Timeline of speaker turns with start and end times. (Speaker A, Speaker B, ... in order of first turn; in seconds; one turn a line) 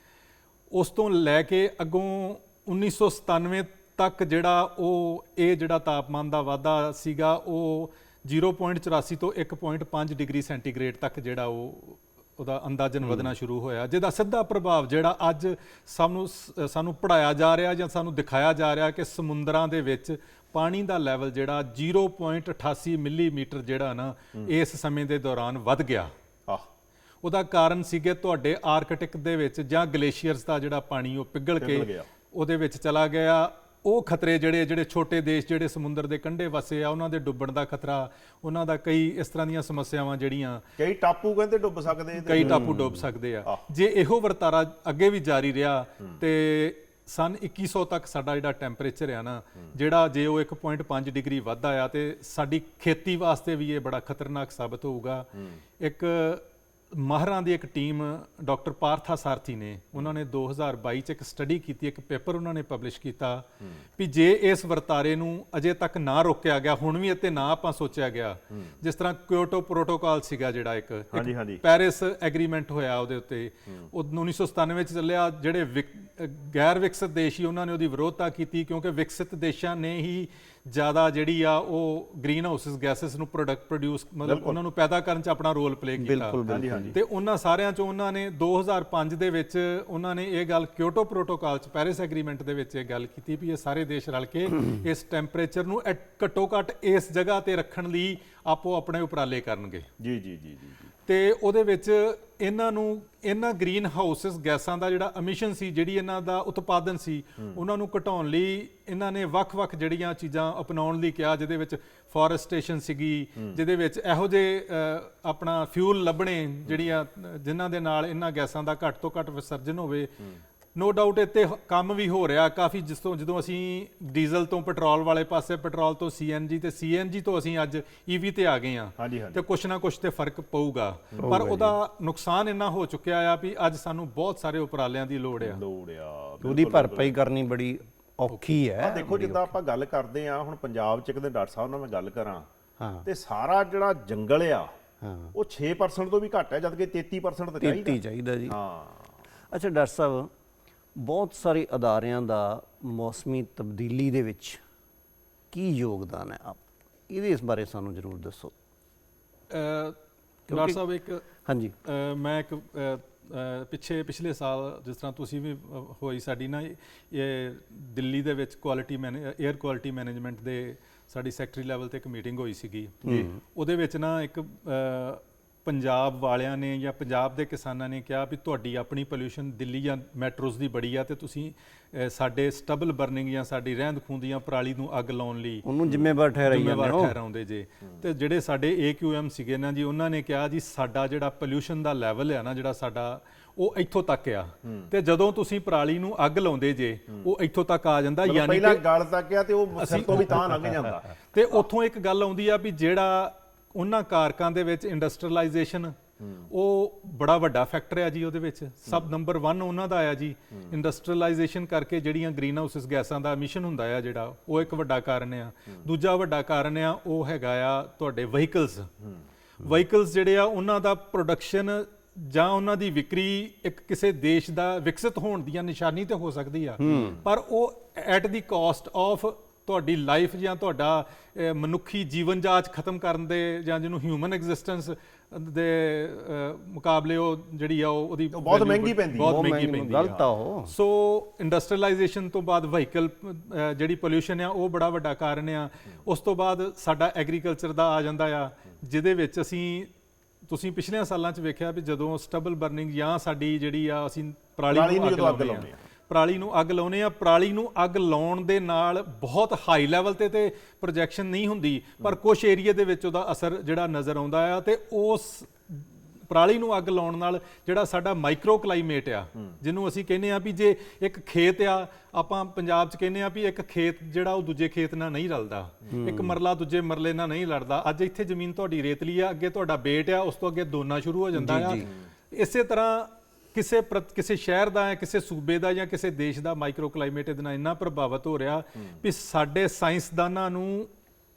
Speaker A: 0.7-26.1
Speaker B: 13.0-13.3
Speaker A: 27.2-40.6
Speaker C: 31.6-32.1
Speaker C: 40.8-42.7
Speaker A: 42.2-55.3
Speaker B: 42.3-43.0
Speaker C: 55.4-55.6
Speaker A: 55.8-63.5
Speaker A: 64.0-99.9
Speaker C: 71.1-71.6
Speaker C: 84.2-84.6
Speaker B: 86.0-87.0
Speaker C: 86.5-87.0
Speaker C: 100.0-100.9
Speaker A: 101.1-120.1
Speaker A: 120.7-135.6
Speaker C: 129.0-129.4
Speaker B: 131.2-131.8
Speaker C: 135.4-137.2
Speaker B: 136.4-139.6
Speaker C: 138.8-142.5
Speaker B: 142.8-143.1
Speaker C: 143.0-144.7
Speaker B: 145.0-145.3
Speaker C: 145.3-149.2
Speaker B: 147.6-148.6
Speaker B: 149.5-150.3
Speaker B: 150.9-154.6
Speaker B: 155.5-158.5
Speaker A: 159.5-160.0
Speaker B: 160.5-160.8
Speaker A: 160.5-161.2
Speaker B: 161.4-161.7
Speaker A: 161.8-185.7
Speaker B: 173.0-173.3
Speaker B: 185.6-187.2
Speaker C: 185.8-186.1
Speaker A: 186.4-198.8
Speaker C: 194.6-194.9
Speaker C: 198.2-201.6
Speaker A: 199.8-205.9
Speaker C: 206.2-206.5
Speaker A: 206.5-218.9
Speaker A: 219.6-240.2
Speaker B: 226.8-227.2
Speaker C: 226.8-227.2
Speaker C: 238.3-240.2
Speaker B: 239.1-240.7
Speaker A: 240.7-249.9
Speaker A: 250.5-290.9
Speaker C: 254.7-255.8
Speaker B: 275.9-276.4
Speaker B: 281.3-281.9